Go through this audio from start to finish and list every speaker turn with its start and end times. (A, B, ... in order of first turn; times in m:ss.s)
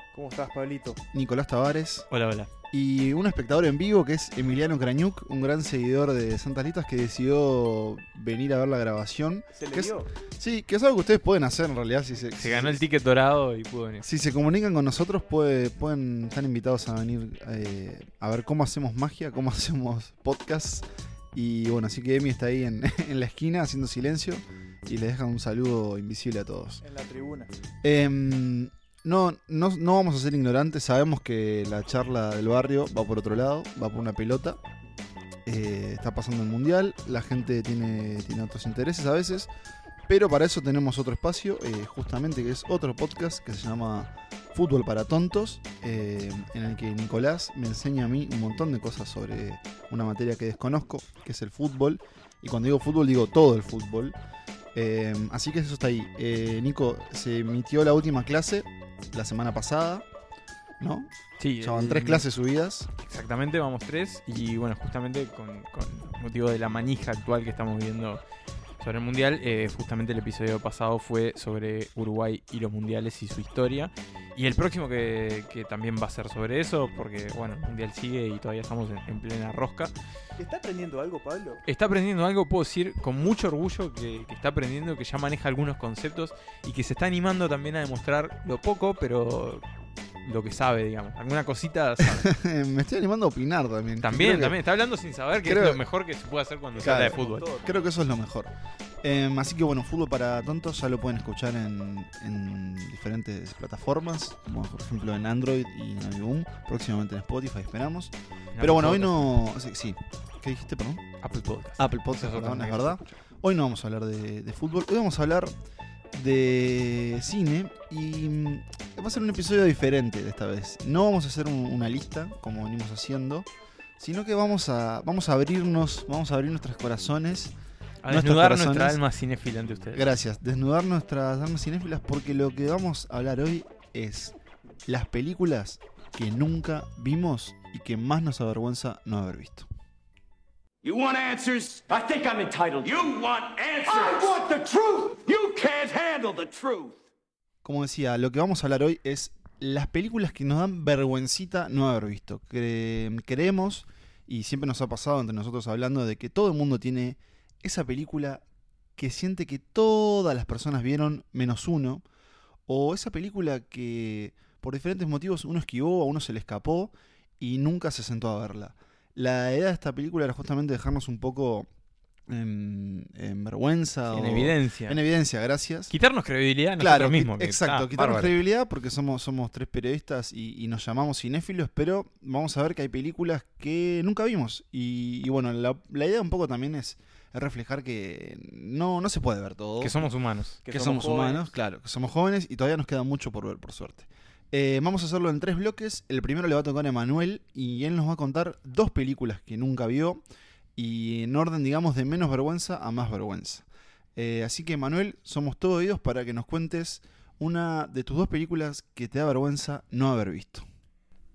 0:00.1-0:01.0 A
0:01.1-0:02.1 B
0:02.1-0:02.5 C
0:02.7-0:12.8 B
0:09.5-0:10.1 A
0:12.3-0:14.0 C
0:14.0-0:26.8 B
0:26.8-0:27.5 A
0:27.8-0:34.6 B
0:35.4-0:39.5 B
0:40.1-0:54.1 B
0:54.7-1:00.0 B
1:00.8-1:02.9 B
1:01.4-1:02.2 C
1:03.0-1:08.2 C
1:08.8-1:19.9 C
1:20.4-1:21.6 A
1:21.7-1:29.6 C
1:30.2-1:32.3 C
1:32.1-1:34.6 B
1:34.0-1:37.5 C
1:35.4-1:35.8 B
1:36.8-1:37.9 A
1:36.8-1:38.5 B
1:39.0-1:51.0 B
1:48.5-1:49.3 C
1:51.2-1:53.0 C
1:51.8-1:55.5 B
1:56.1-2:03.5 B
2:04.0-2:07.5 B
2:08.0-2:10.1 C
2:08.1-2:09.0 B
2:09.9-2:14.3 B
2:14.9-2:19.7 B
2:20.8-2:27.0 D
2:27.6-2:38.4 B
2:39.0-2:42.0 B
2:42.7-2:51.7 B
2:52.3-2:55.9 B
2:54.1-2:55.0 C
2:55.9-2:58.4 C
2:56.8-3:09.9 B
3:09.8-3:10.6 C
3:10.6-3:11.5 A
3:10.7-3:20.2 B
3:20.8-3:23.6 B
3:24.2-3:30.6 B